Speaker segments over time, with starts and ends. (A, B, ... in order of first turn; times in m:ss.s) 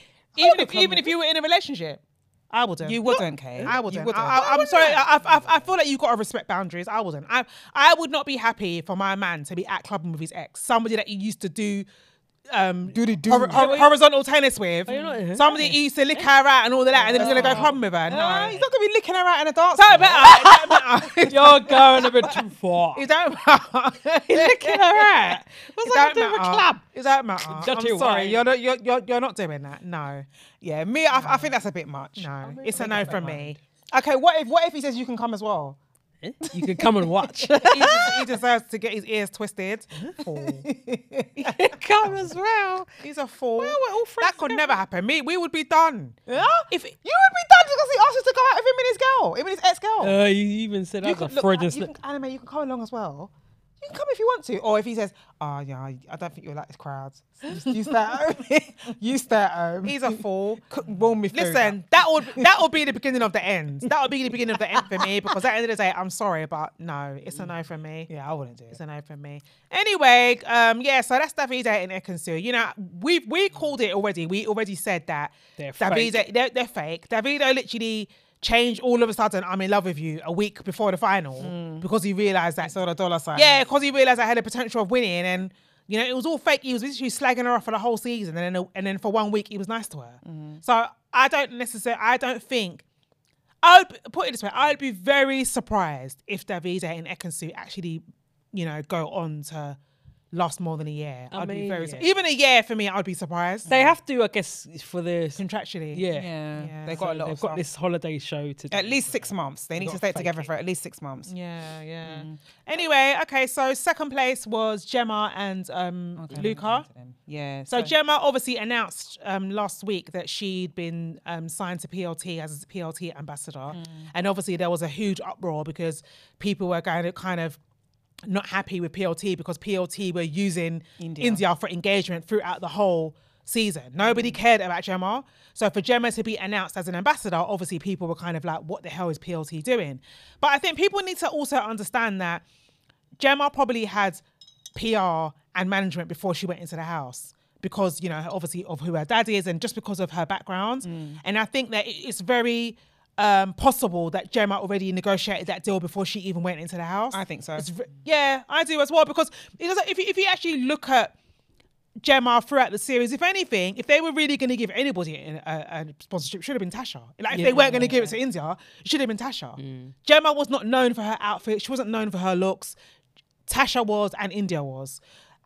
0:00.4-0:11.8 A
0:00.4-0:01.1 B
0:02.8-0:04.4 C
0:03.0-0:05.6 B
0:12.5-0:18.6 A
0:12.9-0:13.8 C
0:13.5-0:13.9 B
0:14.9-0:16.3 B
0:16.9-0:17.8 B
0:17.1-0:20.6 C
0:19.7-0:22.3 A
0:20.0-0:20.6 B
0:21.2-0:23.0 B
0:22.9-0:30.2 A
0:24.3-0:26.8 B
0:27.5-0:28.4 B
0:30.6-0:35.8 C
0:31.1-0:31.5 A
0:32.2-0:33.6 A
0:32.4-0:33.5 B
0:36.2-0:38.2 B
0:36.4-0:38.2 C
0:37.7-0:40.7 A
0:40.4-0:42.9 C
0:41.4-0:42.7 B
0:43.0-0:47.0 A
0:43.6-0:44.8 B
0:46.3-0:50.2 C
0:50.0-0:51.9 B
0:51.0-0:53.3 C
0:53.8-1:01.8 C
0:59.8-1:00.6 A
1:01.3-1:08.1 A
1:08.1-1:08.8 C
1:08.7-1:22.7 A
1:15.6-1:16.2 B
1:21.4-1:21.8 C
1:22.6-1:23.6 C
1:23.3-1:32.8 A
1:30.2-1:30.6 C
1:33.6-1:38.0 A
1:38.5-1:39.8 A
1:40.3-1:43.7 A
1:41.3-1:42.1 B
1:43.7-1:45.4 B
1:45.4-1:46.0 A
1:45.9-1:46.3 B
1:46.1-1:47.6 C
1:46.6-1:47.0 A
1:46.9-1:50.5 B
1:48.7-1:51.3 C
1:51.3-1:56.8 A
1:52.0-1:52.3 C
1:56.2-1:57.9 C
1:57.7-2:07.6 A
2:03.7-2:04.0 C
2:08.2-2:22.4 A
2:11.0-2:11.4 C
2:23.2-2:24.2 A
2:24.7-2:41.1 A
2:30.8-2:31.2 C
2:37.1-2:37.7 C
2:42.0-2:52.8 A
2:47.3-2:48.0 C
2:47.4-2:48.0 B
2:49.6-2:49.9 B
2:53.5-2:55.0 A